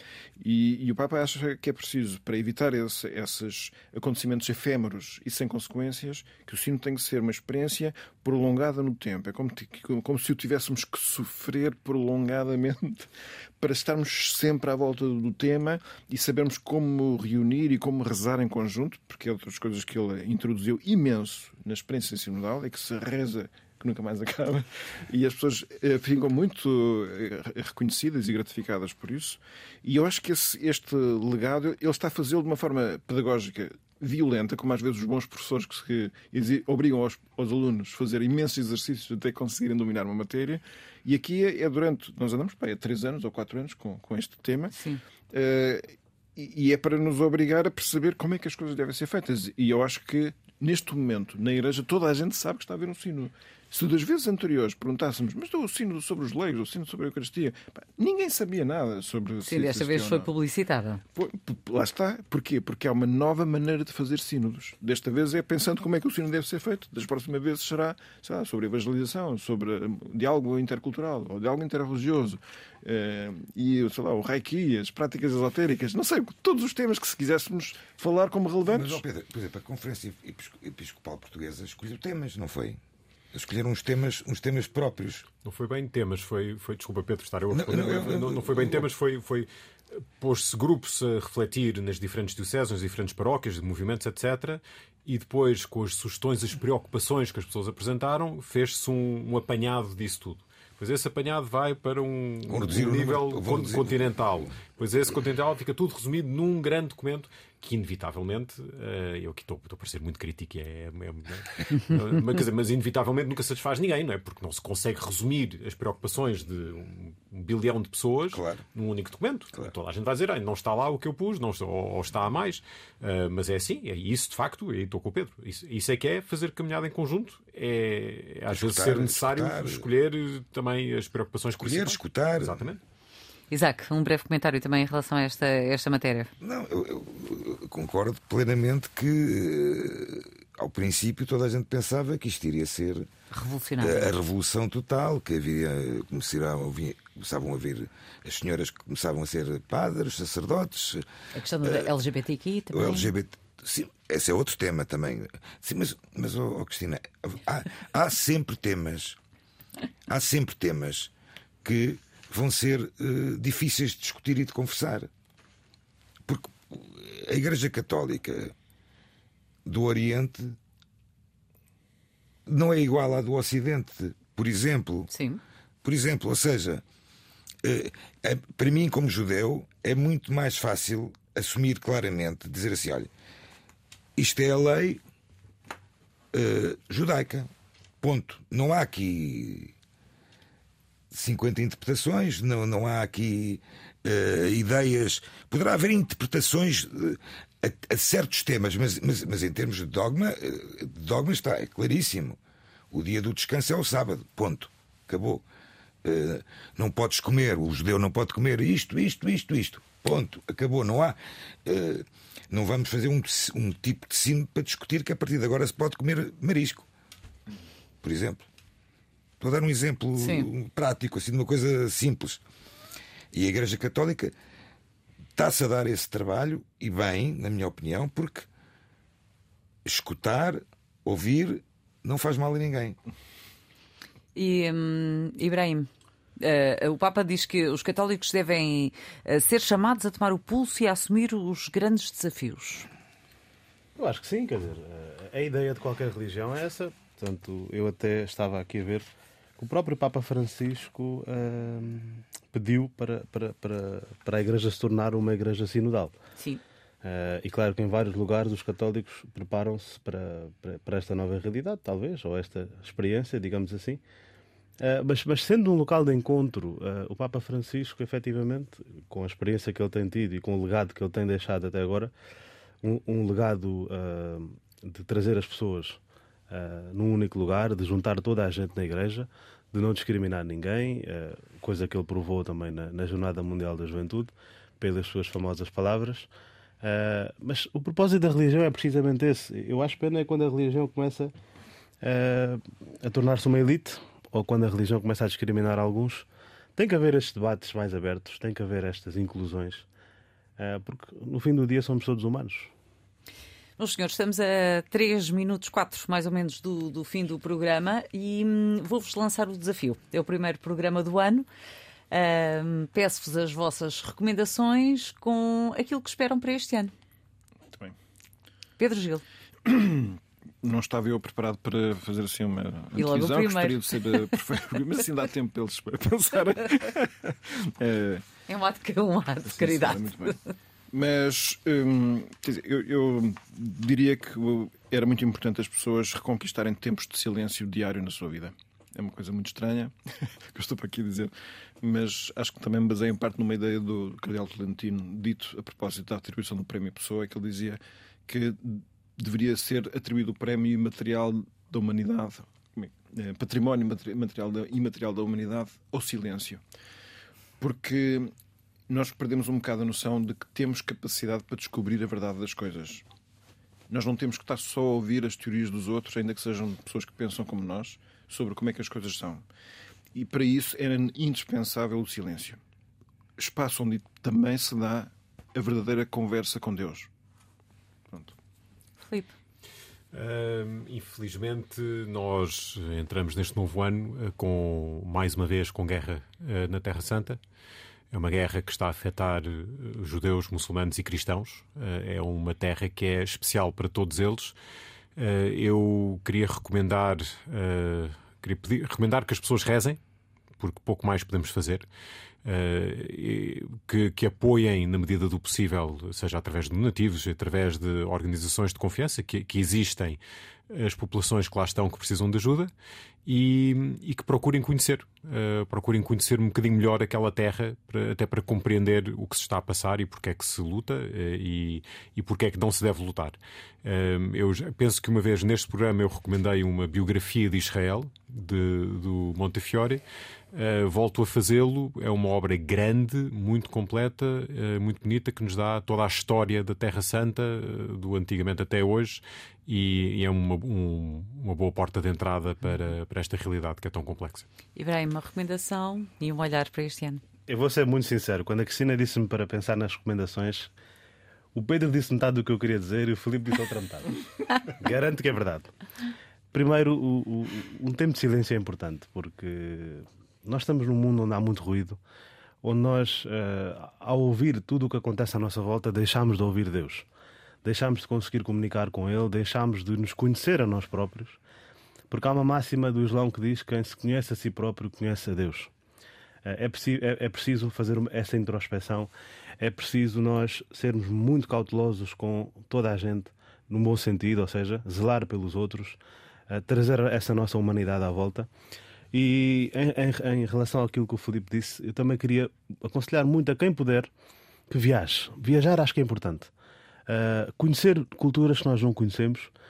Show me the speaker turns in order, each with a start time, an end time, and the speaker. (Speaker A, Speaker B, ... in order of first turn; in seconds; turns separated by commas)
Speaker A: 0.4-44.8, Speaker B: 44.7-45.0, Speaker A: 45.3-60.3, Speaker B: 59.4-61.0, Speaker A: 61.1-79.0, Speaker C: 78.7-82.8, Speaker C: 83.3-85.3, Speaker D: 85.4-132.8, Speaker C: 87.5-88.9, Speaker C: 102.5-104.5, Speaker C: 118.3-118.6, Speaker C: 128.5-129.9, Speaker C: 131.6-132.7, Speaker B: 133.5-136.3, Speaker C: 136.4-143.1, Speaker B: 143.3-144.1, Speaker C: 143.8-151.1, Speaker B: 151.3-153.1, Speaker C: 151.6-151.9, Speaker C: 152.7-159.2, Speaker C: 160.1-161.1, Speaker C: 161.6-165.1, Speaker C: 166.3-168.6, Speaker C: 169.7-170.6, Speaker C: 172.5-175.1, Speaker B: 175.1-175.4, Speaker C: 175.8-176.8, Speaker C: 177.6-183.1, Speaker C: 184.2-185.0, Speaker C: 186.3-187.5, Speaker C: 188.0-189.7, Speaker C: 191.1-202.4, Speaker C: 202.9-205.4, Speaker C: 206.0-216.9, Speaker C: 218.0-218.4, Speaker C: 219.4-222.4, Speaker B: 220.2-220.5, Speaker C: 223.3-224.3, Speaker C: 225.4-228.5, Speaker C: 229.8-233.0, Speaker B: 234.3-242.9, Speaker E: 244.0-256.2, Speaker E: 257.0-264.0, Speaker E: 264.8-272.1, Speaker E: 272.8-286.3, Speaker E: 286.8-291.3, Speaker E: 292.0-299.9, Speaker E: 300.6-302.7, Speaker B: 303.8-311.5, Speaker B: 312.1-316.9, Speaker A: 317.7-318.0, Speaker B: 318.8-319.2, Speaker A: 319.6-328.2, Speaker B: 322.9-323.8, Speaker B: 328.5-330.4, Speaker A: 329.5-330.4, Speaker A: 330.9-356.6, Speaker A: 357.6-358.3, Speaker A: 358.9-363.0, Speaker A: 363.9-369.4, Speaker A: 370.1-372.6, Speaker A: 373.4-377.1, Speaker A: 378.1-378.4, Speaker B: 379.0-379.3, Speaker D: 380.1-387.4, Speaker D: 388.1-394.6, Speaker D: 395.2-400.0, Speaker D: 400.6-401.9, Speaker D: 402.4-410.2, Speaker D: 410.7-412.7, Speaker D: 413.3-430.0, Speaker D: 430.5-444.5, Speaker B: 444.8-447.2, Speaker E: 447.5-450.7, Speaker E: 451.5-454.1, Speaker E: 454.6-455.7, Speaker E: 456.5-462.0, Speaker E: 462.6-467.1, Speaker E: 467.6-471.4, Speaker E: 472.1-475.7, Speaker E: 476.4-488.5, Speaker E: 489.1-494.1, Speaker E: 494.7-496.5, Speaker E: 497.1-499.5